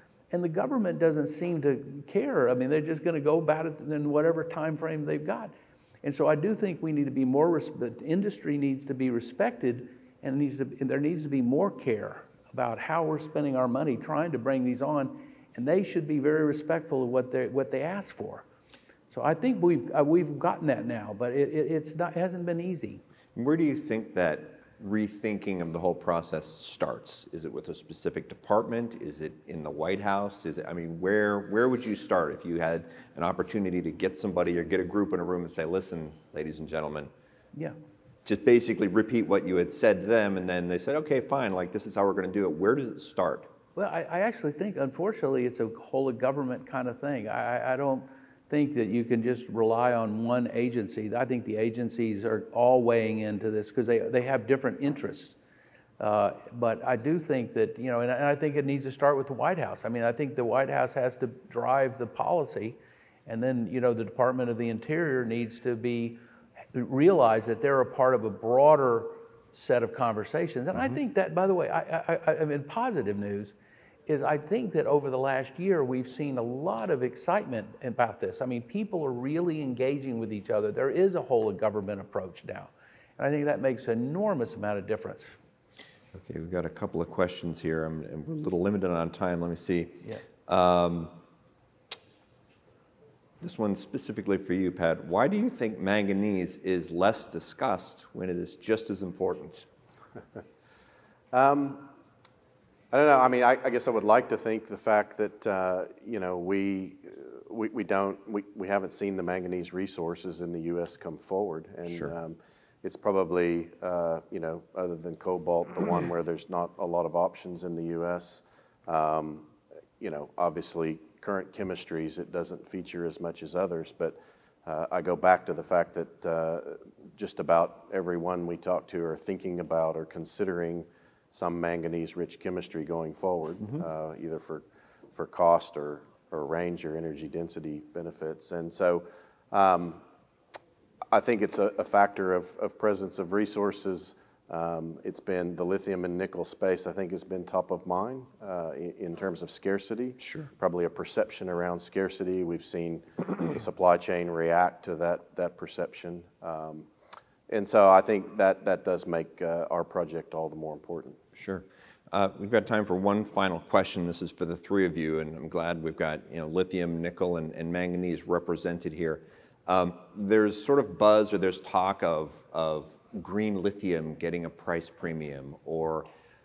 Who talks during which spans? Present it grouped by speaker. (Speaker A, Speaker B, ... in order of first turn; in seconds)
Speaker A: 0.3-18.4, 19.1-23.0, 43.8-55.4, 56.0-66.2, 66.7-73.5, 74.1-85.4
Speaker B: 23.4-37.1, 38.2-43.5, 86.1-91.2, 93.4-99.7, 111.9-112.1, 150.2-150.5, 161.4-176.1
Speaker C: 101.3-101.9, 102.9-140.0, 141.1-156.9, 157.5-161.2